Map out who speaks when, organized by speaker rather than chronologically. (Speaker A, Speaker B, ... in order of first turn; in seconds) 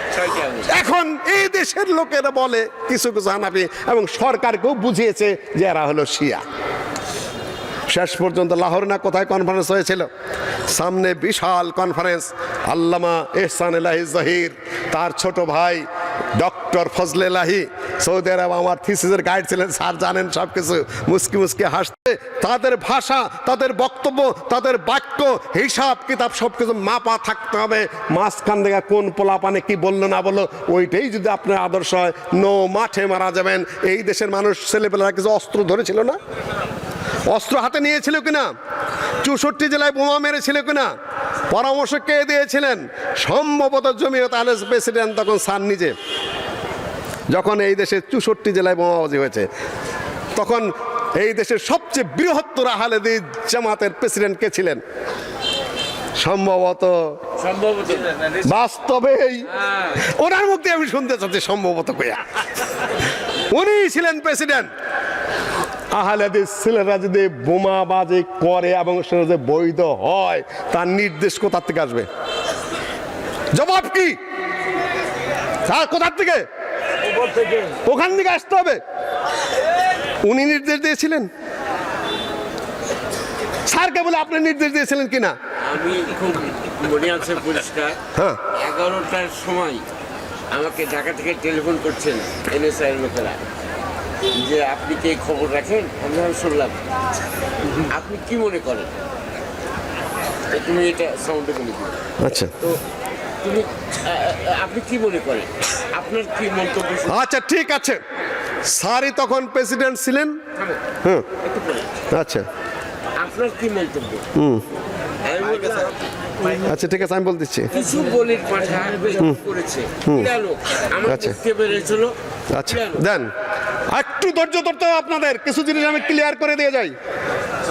Speaker A: 0.1-0.7, 57.4-58.3, 85.6-89.9, 90.5-93.4, 94.3-96.8, 97.7-98.9, 100.5-102.0, 103.4-107.2, 111.4-111.9, 113.1-114.3, 115.2-116.1, 117.7-123.0
Speaker B: 0.5-6.4, 7.9-10.1, 10.7-36.2, 37.3-38.5, 39.2-40.9, 41.5-46.0, 47.3-49.5, 50.4-54.8, 56.2-57.2, 58.4-62.3, 63.5-64.7, 65.9-72.1, 73.5-74.2, 75.6-76.5, 77.7-78.8, 80.2-81.3, 83.7-85.4, 88.1-88.4, 102.2-102.5, 107.0-108.0, 108.6-110.4, 111.0-111.3, 112.1-112.5, 114.3-114.6, 116.6-117.7, 120.0-120.3, 121.0-121.4, 122.5-123.3, 123.9-127.0